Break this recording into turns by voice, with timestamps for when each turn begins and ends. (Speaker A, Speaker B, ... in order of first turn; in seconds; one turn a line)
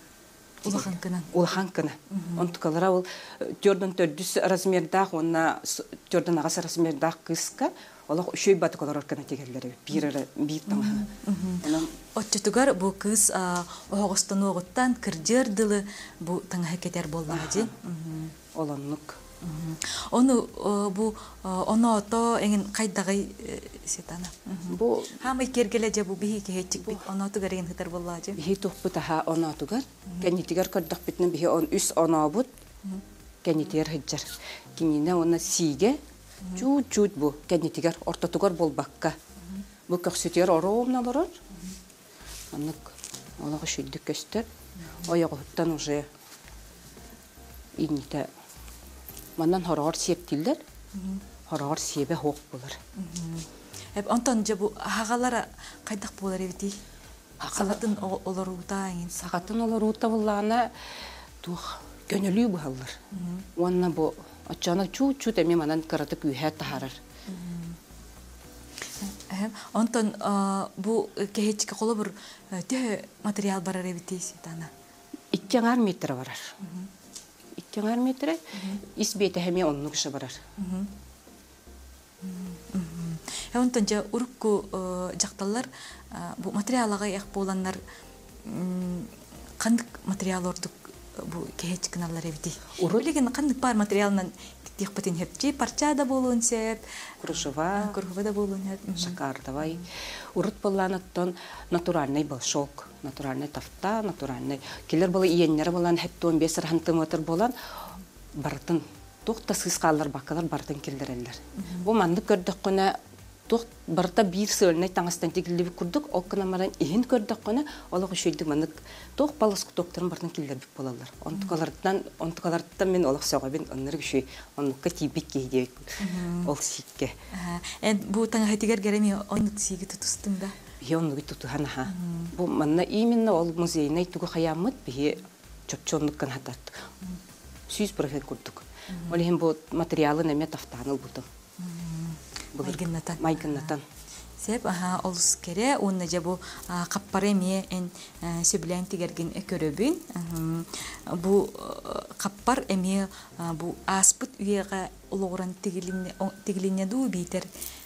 Speaker A: 0.6-1.3
Speaker B: 0.6-11.1
Speaker A: 2.1-2.5
Speaker A: 10.7-18.3
Speaker B: 11.6-11.9
Speaker B: 17.3-17.7
Speaker B: 18.5-19.2
Speaker A: 19.4-28.4
Speaker B: 24.7-25.2
Speaker B: 28.4-32.5
Speaker B: 33.4-36.0
Speaker B: 36.5-39.2
Speaker B: 39.9-41.4
Speaker B: 42.5-44.5
Speaker B: 45.0-46.1
Speaker B: 47.8-48.3
Speaker B: 49.4-50.6
Speaker A: 50.9-51.2
Speaker B: 51.5-52.8
Speaker A: 52.9-56.8
Speaker B: 57.4-57.8
Speaker A: 57.5-59.2
Speaker B: 59.1-63.0
Speaker A: 63.1-63.5
Speaker B: 63.5-67.0
Speaker A: 67.3-67.8
Speaker A: 69.0-74.7
Speaker B: 75.3-76.5
Speaker A: 76.6-76.9
Speaker B: 77.6-80.4
Speaker A: 78.5-78.8
Speaker A: 80.6-80.9
Speaker A: 82.2-87.8
Speaker A: 88.4-96.8
Speaker B: 92.8-93.0
Speaker B: 97.2-98.0
Speaker A: 97.7-99.8
Speaker B: 99.0-107.5
Speaker B: 108.3-127.1
Speaker A: 111.6-111.8
Speaker A: 126.0-126.5
Speaker A: 127.3-130.6
Speaker B: 130.8-136.9
Speaker A: 131.9-132.3
Speaker B: 137.7-141.3
Speaker A: 138.9-139.2
Speaker A: 141.6-143.7
Speaker B: 142.6-143.8
Speaker A: 144.4-157.5